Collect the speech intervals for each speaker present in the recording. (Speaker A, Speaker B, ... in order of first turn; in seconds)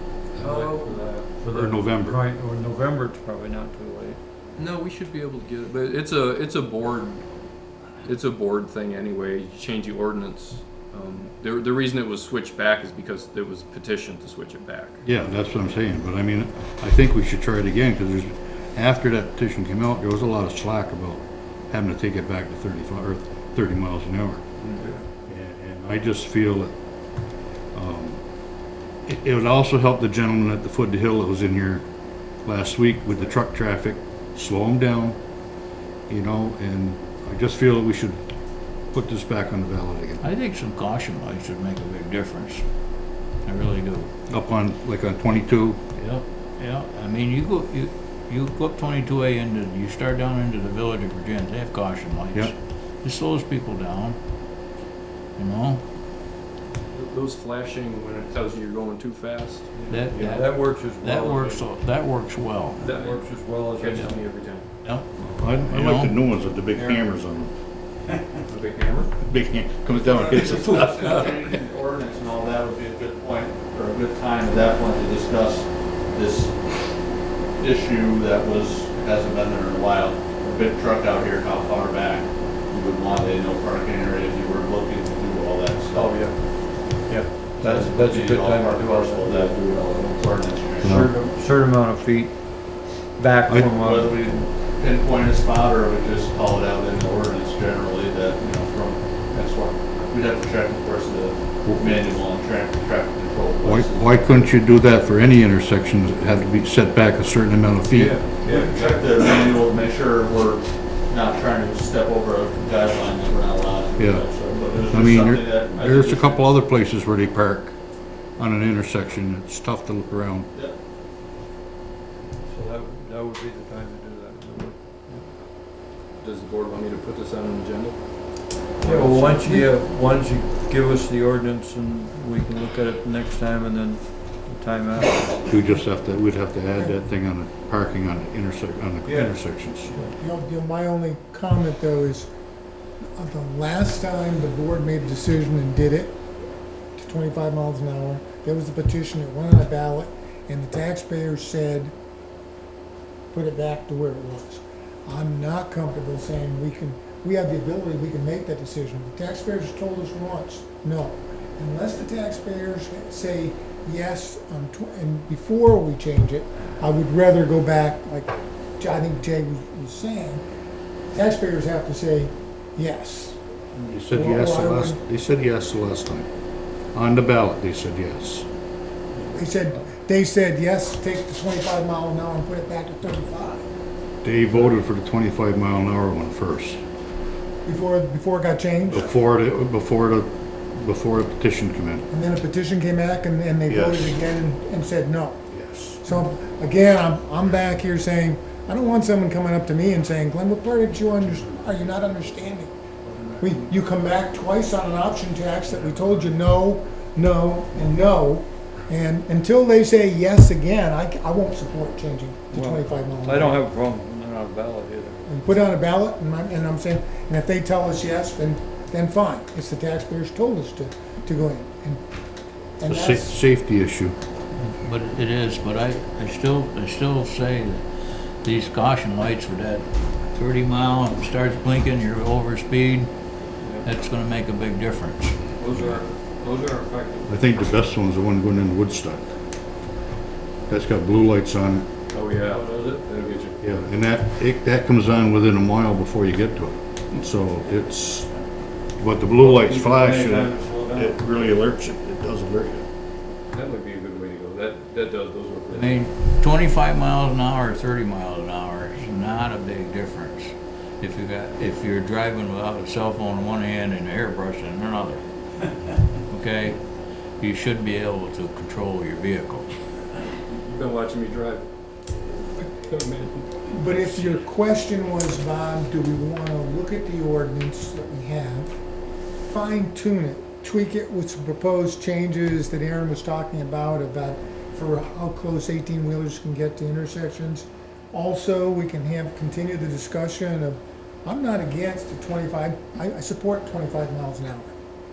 Speaker A: 0.3-4.2, 59.9-61.7, 62.9-64.2, 85.9-86.4, 86.9-89.6, 90.8-94.4, 107.9-108.9, 122.5-125.2, 128.8-135.6, 212.5-215.2, 235.6-237.4, 242.3-243.2, 249.3-251.2
Speaker B: 0.4-1.1, 4.6-7.2, 8.0-15.0, 24.6-25.0, 56.9-59.9, 62.8-64.7, 68.3-69.1, 126.2-128.0, 128.8-129.5, 242.1-243.8, 253.5-256.0, 270.4-271.7, 272.6-273.8
Speaker C: 1.4-2.2, 15.0-24.4, 25.3-26.7, 27.7-28.2, 29.1-31.8, 32.4-35.2, 36.1-38.2, 38.9-40.2, 44.3-45.8, 65.2-67.5, 69.2-71.1, 103.6-108.2, 114.0-114.2, 114.9-117.7, 118.4-120.5, 135.5-139.9, 173.9-176.3, 176.9-178.4, 184.2-186.8, 188.9-192.0, 193.7-194.2, 195.5-196.0, 222.9-224.2, 237.3-239.3, 240.7-241.8, 243.6-248.3, 249.0-252.8
Speaker D: 40.2-42.6, 43.4-44.1, 46.0-54.2, 55.4-55.8, 59.9-62.9, 64.8-65.1, 65.7-66.2, 224.8-233.1, 233.8-235.3, 255.7-265.2, 266.3-266.8, 267.4-269.7, 274.0-274.3
Speaker E: 69.9-76.6, 77.6-86.3, 87.5-91.1, 93.5-104.5, 108.4-116.4
Speaker F: 139.9-142.3, 143.2-146.2, 146.9-151.9, 153.3-170.4, 171.1-173.4, 174.0-175.0, 179.3-183.7, 187.6-189.1, 192.1-195.4, 196.0-202.7, 203.2-213.6, 215.2-222.0, 222.8-223.4, 273.7-278.7, 279.4-294.7